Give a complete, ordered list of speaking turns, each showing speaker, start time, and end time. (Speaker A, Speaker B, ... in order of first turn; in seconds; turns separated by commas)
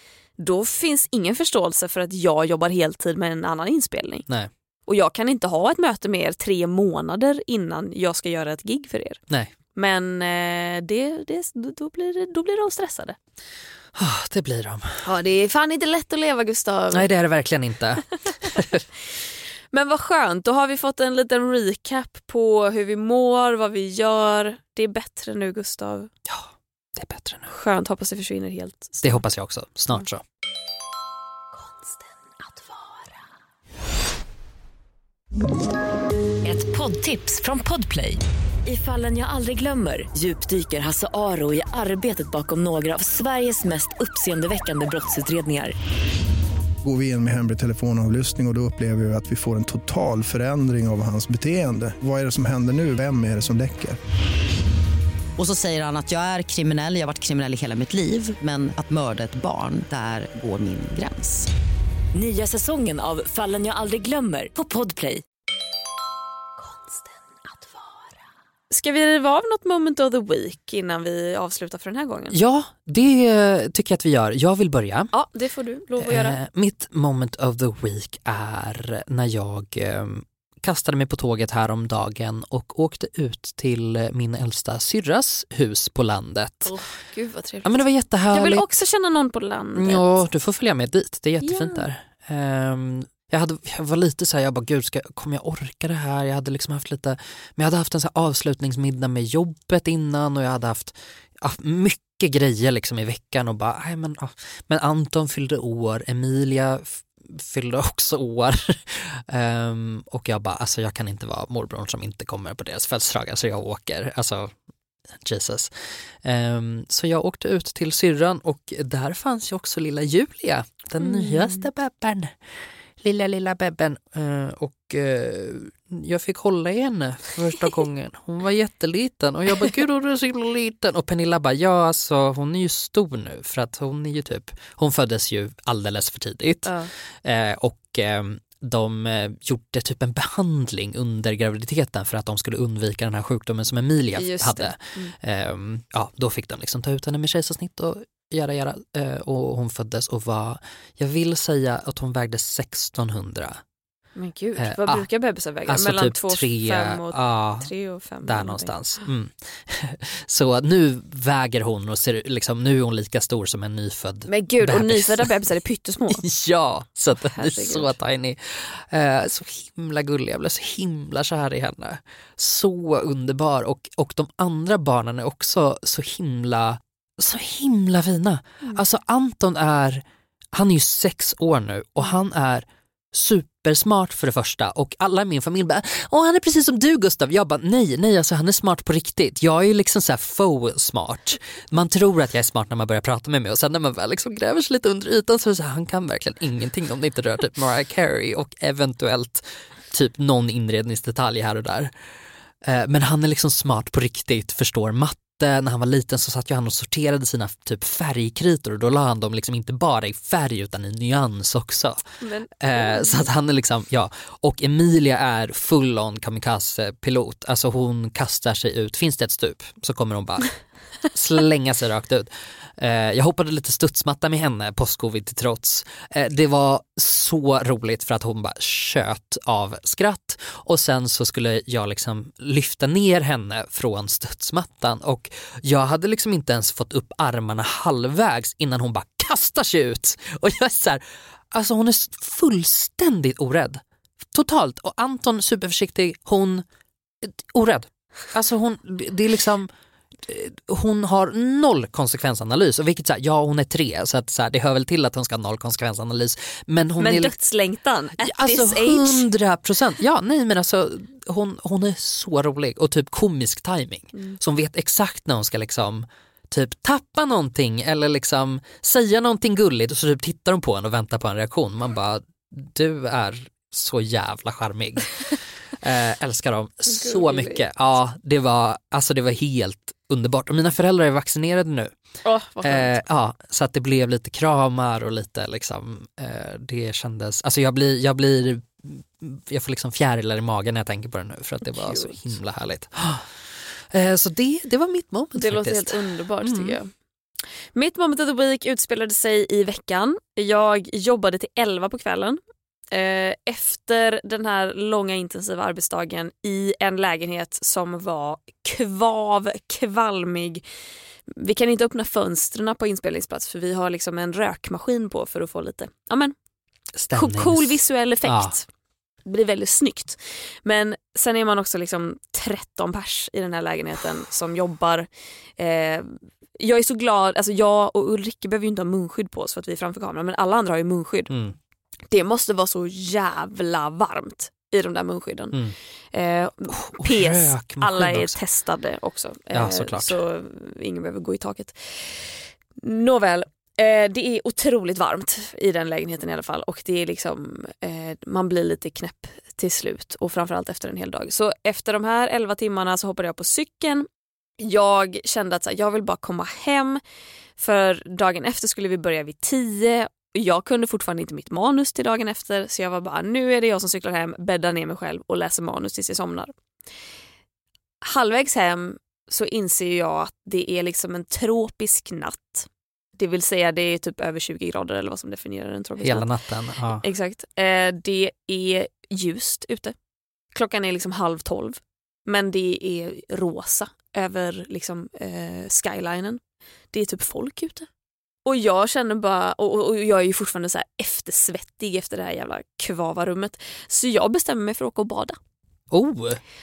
Speaker A: 0.4-4.2, Speaker A: 4.9-9.2, Speaker A: 9.7-13.2, Speaker B: 13.9-15.0, Speaker A: 15.0-17.1, Speaker B: 16.9-18.8, Speaker A: 19.7-26.1, Speaker B: 26.3-27.5, Speaker A: 27.5-29.2, Speaker B: 29.0-30.2, Speaker C: 36.4-45.7, Speaker D: 46.8-54.0, Speaker E: 55.4-61.4, Speaker C: 62.1-65.2, Speaker A: 68.7-72.3, Speaker B: 72.3-75.1, Speaker A: 75.1-76.4, Speaker B: 76.0-86.7, Speaker A: 86.7-90.2, Speaker B: 87.6-88.6, Speaker B: 89.7-114.5, Speaker A: 91.4-91.8, Speaker B: 115.2-122.4, Speaker A: 121.0-121.6, Speaker B: 123.0-153.6, Speaker A: 136.7-136.9, Speaker A: 144.1-145.1, Speaker A: 154.2-158.7, Speaker B: 154.6-155.1, Speaker B: 155.7-157.7, Speaker B: 158.2-165.3, Speaker A: 164.3-166.2, Speaker B: 166.1-201.9, Speaker A: 167.2-167.9, Speaker B: 202.6-212.0, Speaker A: 212.2-213.3, Speaker B: 212.6-220.5, Speaker B: 221.1-246.6, Speaker B: 247.2-249.7, Speaker B: 250.2-257.3, Speaker A: 257.0-259.3, Speaker B: 258.2-281.9, Speaker A: 276.9-277.6, Speaker A: 282.2-283.0, Speaker B: 282.6-296.8, Speaker A: 291.7-292.2, Speaker A: 295.4-296.9, Speaker A: 297.7-302.4, Speaker A: 302.9-310.6, Speaker A: 311.3-316.3, Speaker B: 316.9-318.5, Speaker A: 317.1-318.6, Speaker A: 319.2-331.3, Speaker B: 331.3-331.6, Speaker A: 332.1-335.6, Speaker A: 336.1-354.1, Speaker B: 336.7-338.4, Speaker B: 339.5-340.1, Speaker A: 354.6-357.0, Speaker A: 357.6-366.5, Speaker A: 368.0-376.3, Speaker B: 376.0-377.0, Speaker A: 377.0-379.9, Speaker A: 380.5-386.4, Speaker A: 386.9-387.9, Speaker A: 388.4-395.4, Speaker B: 395.9-396.4